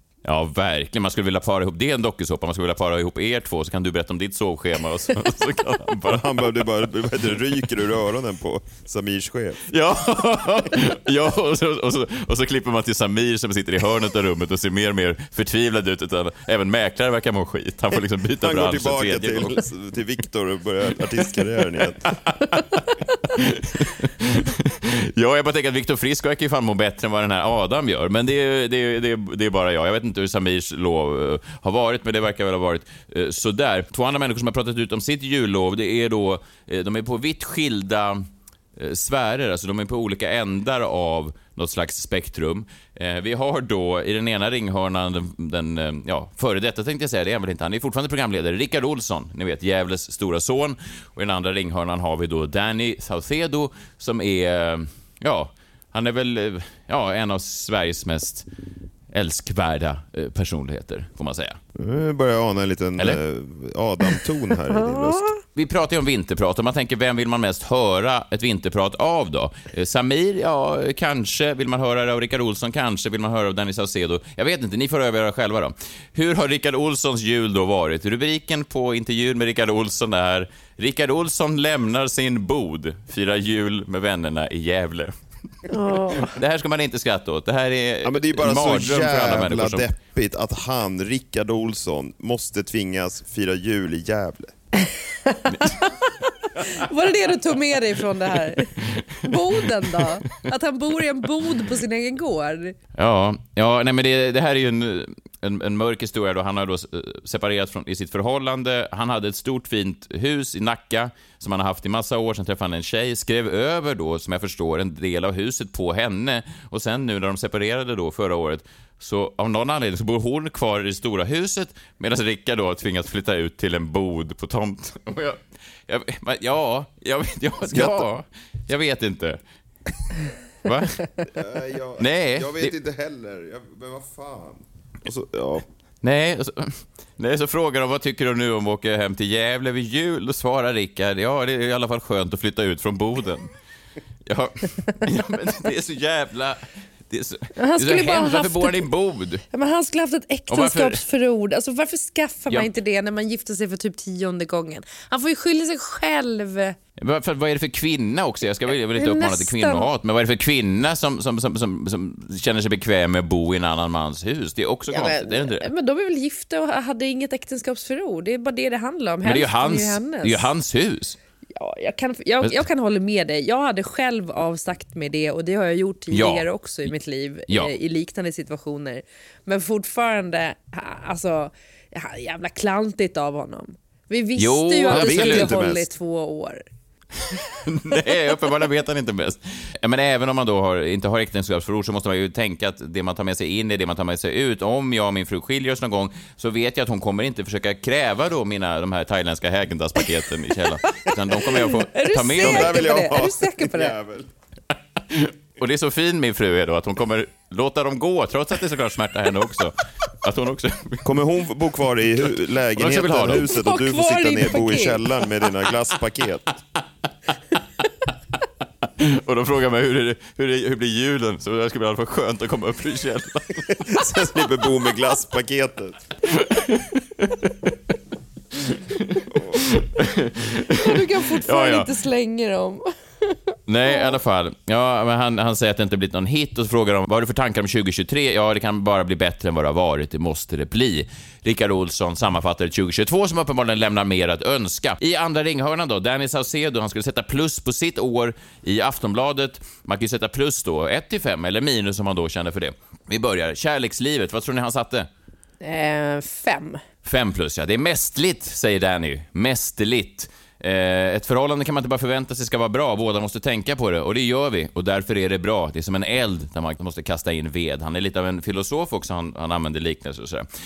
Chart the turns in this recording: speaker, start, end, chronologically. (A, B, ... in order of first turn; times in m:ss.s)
0:00.2-0:06.7 A
0:06.1-0:09.6 B
0:09.7-0:19.6 A
0:18.4-0:22.0 B
0:21.8-0:38.2 A
0:38.8-0:58.5 A
0:59.1-1:01.6 A
1:01.8-1:05.4 B
1:04.8-1:05.2 C
1:05.6-1:25.1 A
1:25.7-1:26.4 C
1:26.2-1:29.9 A
1:28.0-1:34.5 B
1:35.3-1:42.8 C
1:38.8-1:39.2 A
1:43.0-2:09.4 A
2:07.7-2:08.1 B
2:10.6-2:11.1 A
2:11.3-2:15.6 B
2:12.0-2:12.8 A
2:16.0-2:23.5 A
2:24.3-2:29.4 A
2:27.6-2:28.8 C
2:29.5-2:36.8 C
2:30.5-2:31.0 A
2:37.0-2:45.7 A
2:39.0-2:39.9 C
2:44.9-2:50.5 C
2:49.2-2:51.2 A
2:51.6-3:06.6 C
2:56.1-2:56.4 A
3:04.4-3:05.5 A
3:04.9-3:05.9 B
3:07.3-3:22.8 A
3:21.5-3:24.0 C
3:22.3-3:24.3 B
3:25.1-3:31.1 A
3:31.0-3:36.5 B
3:32.2-3:33.5 A
3:33.5-3:35.2 C
3:39.0-3:43.9 A
3:43.7-3:46.0 B
3:46.3-3:47.7 A
3:48.7-3:51.9 A
3:50.7-3:54.2 C
3:53.7-4:15.1 A
4:15.6-4:16.8 C
4:17.0-4:30.5 A